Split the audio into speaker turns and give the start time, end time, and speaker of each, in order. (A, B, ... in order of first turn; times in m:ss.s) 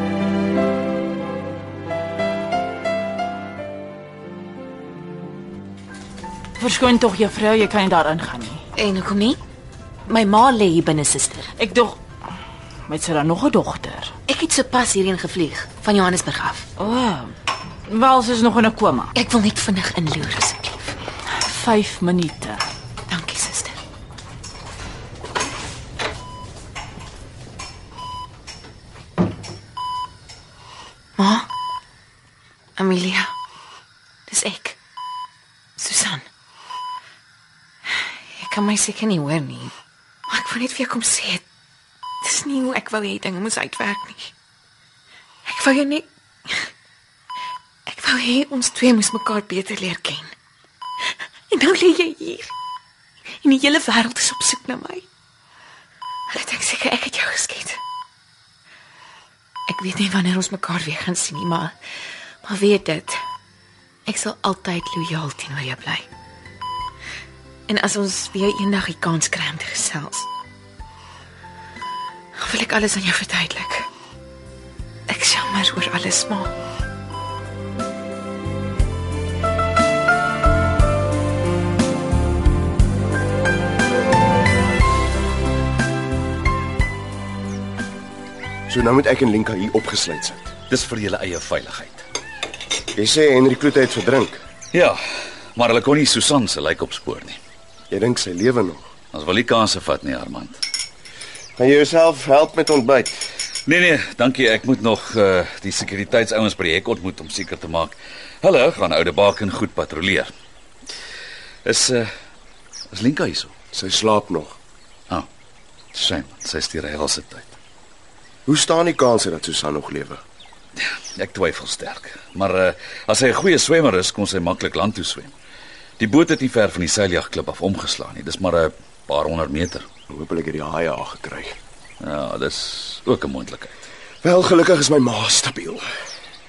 0:06.6-0:08.6 A
0:08.8-0:09.4 B
0:10.1-0:11.5 B
0:11.6-0:12.0 A
0:12.9-0:14.1 A
0:14.3-0:16.7 B
0:16.8-0:17.3 A
0:17.9-0:19.1 A
0:19.2-0:21.0 B
0:21.4-0:22.6 A
0:23.1-0:23.8 B
0:31.2-0:31.5 B
0:32.8-0:33.3 B
0:34.3-0:34.8 B
0:35.8-0:36.2 B
0:38.0-0:39.7 B
0:40.3-0:41.4 B
0:42.2-0:44.3 B
0:45.4-0:46.7 B
0:47.9-0:50.3 B
0:51.5-0:52.5 B
0:53.4-0:55.1 B
0:56.3-0:57.8 B
0:59.7-1:01.8 B
1:02.4-1:03.2 B
1:04.1-1:06.1 B
1:07.7-1:10.3 B
1:12.4-1:13.9 B
1:15.1-1:16.5 B
1:28.7-1:30.5 C
1:30.7-1:32.0 D
1:32.9-1:34.4 C
1:34.7-1:35.0 D
1:35.6-1:37.4 D
1:37.9-1:38.9 C
1:39.1-1:40.6 D
1:41.6-1:43.1 C
1:43.7-1:50.3 D
1:51.6-1:52.1 D
1:52.9-1:53.5 D
1:53.7-1:54.6 C
1:55.9-1:57.6 D
1:58.5-2:00.2 C
2:00.8-2:05.4 D
2:06.0-2:09.9 D
2:10.1-2:11.6 C
2:12.0-2:13.7 D
2:14.2-2:15.8 C